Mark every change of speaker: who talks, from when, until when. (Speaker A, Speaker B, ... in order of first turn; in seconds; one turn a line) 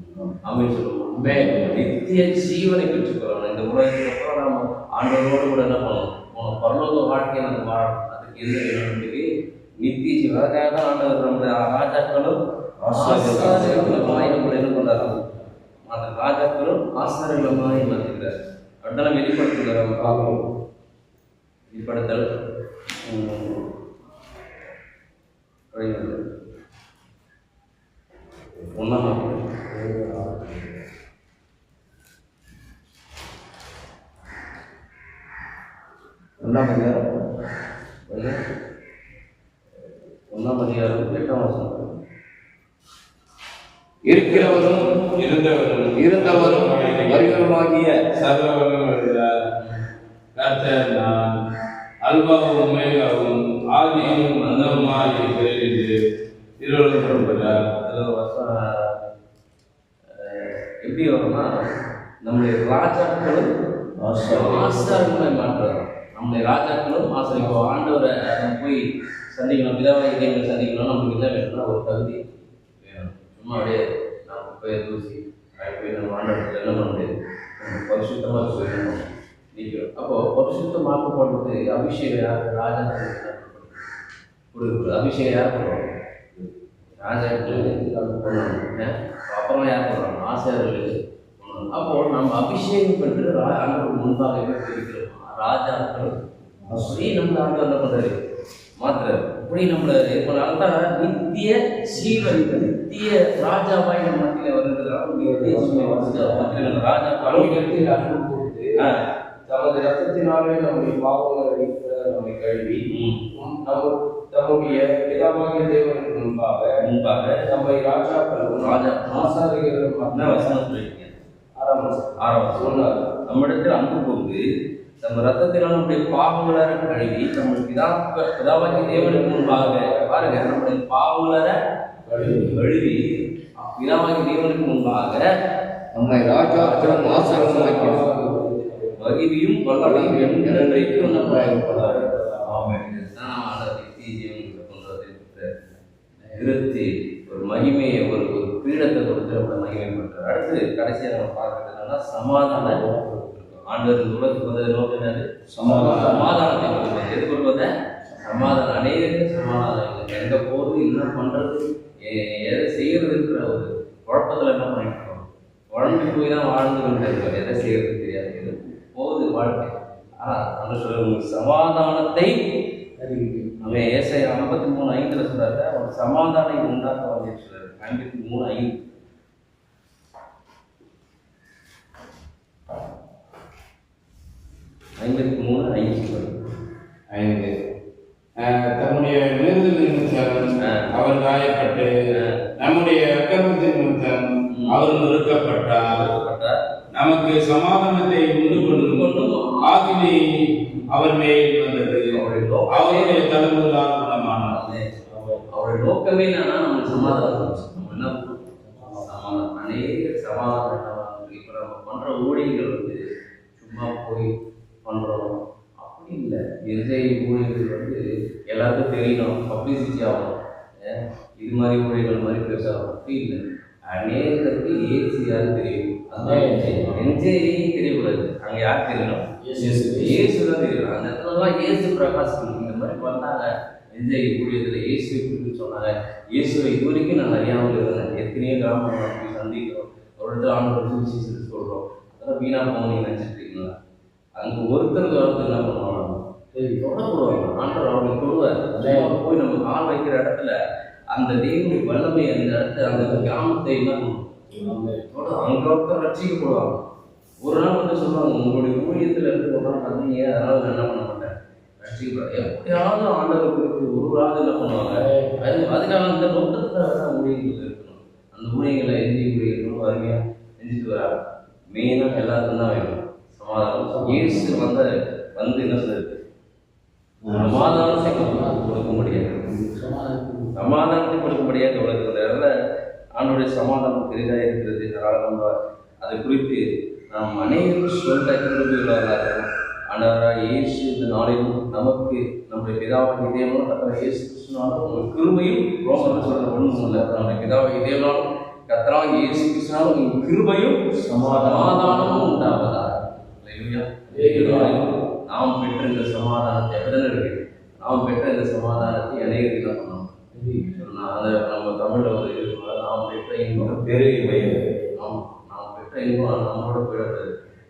Speaker A: 0.3-9.3
Speaker B: 1.3-1.6
Speaker A: 9.8-12.3
Speaker C: 12.8-14.3
Speaker A: 12.9-15.2
Speaker B: 13.1-15.4
Speaker A: 15.8-20.2
Speaker B: 20.0-20.4
Speaker A: 21.7-22.2
Speaker A: 23.0-23.7
Speaker A: 25.7-26.2
Speaker A: 28.6-29.7
Speaker B: 29.8-30.3
Speaker C: 36.4-37.0
Speaker A: 38.1-38.4
Speaker A: 39.8-41.9
Speaker C: 44.1-44.9
Speaker D: 44.1-47.5
Speaker B: 44.4-44.7
Speaker C: 45.9-48.0
Speaker B: 46.4-46.6
Speaker D: 48.1-49.4
Speaker D: 50.4-51.3
Speaker D: 52.0-56.0
Speaker A: 53.9-55.4
Speaker D: 56.6-57.6
Speaker A: 56.9-59.0
Speaker A: 60.1-61.6
Speaker A: 62.2-63.5
Speaker C: 64.0-65.2
Speaker A: 64.2-72.2
Speaker A: 72.8-79.0
Speaker A: 79.5-83.8
Speaker A: 84.5-85.8
Speaker A: 87.0-96.1
Speaker C: 96.7-97.1
Speaker A: 96.8-98.2
Speaker A: 98.8-107.5
Speaker B: 105.2-106.6
Speaker B: 107.2-108.8
Speaker B: 109.5-116.7
Speaker A: 112.9-113.2
Speaker A: 116.8-117.4
Speaker B: 117.5-120.5
Speaker A: 118.5-119.4
Speaker A: 120.1-121.1
Speaker B: 121.5-123.0
Speaker A: 122.1-124.4
Speaker A: 125.0-131.6
Speaker B: 128.6-130.4
Speaker B: 132.0-132.6
Speaker A: 132.2-133.0
Speaker A: 133.6-135.2
Speaker C: 135.9-138.0
Speaker B: 136.1-139.1
Speaker A: 136.3-138.0
Speaker A: 139.0-145.6
Speaker C: 139.8-141.9
Speaker B: 139.9-142.6
Speaker A: 146.3-152.8
Speaker B: 152.7-153.3
Speaker A: 153.3-157.7
Speaker C: 155.6-156.3
Speaker B: 155.6-156.2
Speaker A: 158.2-172.8
Speaker B: 173.0-173.6
Speaker A: 173.6-178.8
Speaker A: 185.0-186.3
Speaker D: 187.1-187.5
Speaker D: 188.4-191.9
Speaker A: 190.6-190.9
Speaker D: 192.6-196.0
Speaker A: 194.5-196.6
Speaker D: 196.9-199.1
Speaker A: 198.5-200.2
Speaker D: 199.6-200.2
Speaker D: 200.9-204.6
Speaker A: 202.1-203.3
Speaker A: 204.3-213.0
Speaker B: 205.1-205.4
Speaker B: 207.0-207.3
Speaker B: 208.7-209.1
Speaker A: 213.6-214.3
Speaker A: 214.8-229.2
Speaker B: 226.2-227.0
Speaker B: 229.4-230.3
Speaker A: 229.9-243.7
Speaker A: 244.4-250.5
Speaker B: 248.7-249.2
Speaker A: 251.1-256.8
Speaker B: 252.9-253.3
Speaker B: 254.5-255.0
Speaker A: 257.4-271.2
Speaker B: 264.9-265.5
Speaker A: 271.7-276.2
Speaker B: 273.9-274.4
Speaker B: 277.3-278.8
Speaker A: 277.3-279.5
Speaker C: 277.4-277.6
Speaker B: 279.4-280.6
Speaker A: 280.5-282.5
Speaker A: 283.1-310.1
Speaker C: 301.1-301.9
Speaker B: 304.1-304.8
Speaker B: 310.3-310.8
Speaker A: 310.7-317.3
Speaker C: 313.7-314.6
Speaker B: 314.2-314.5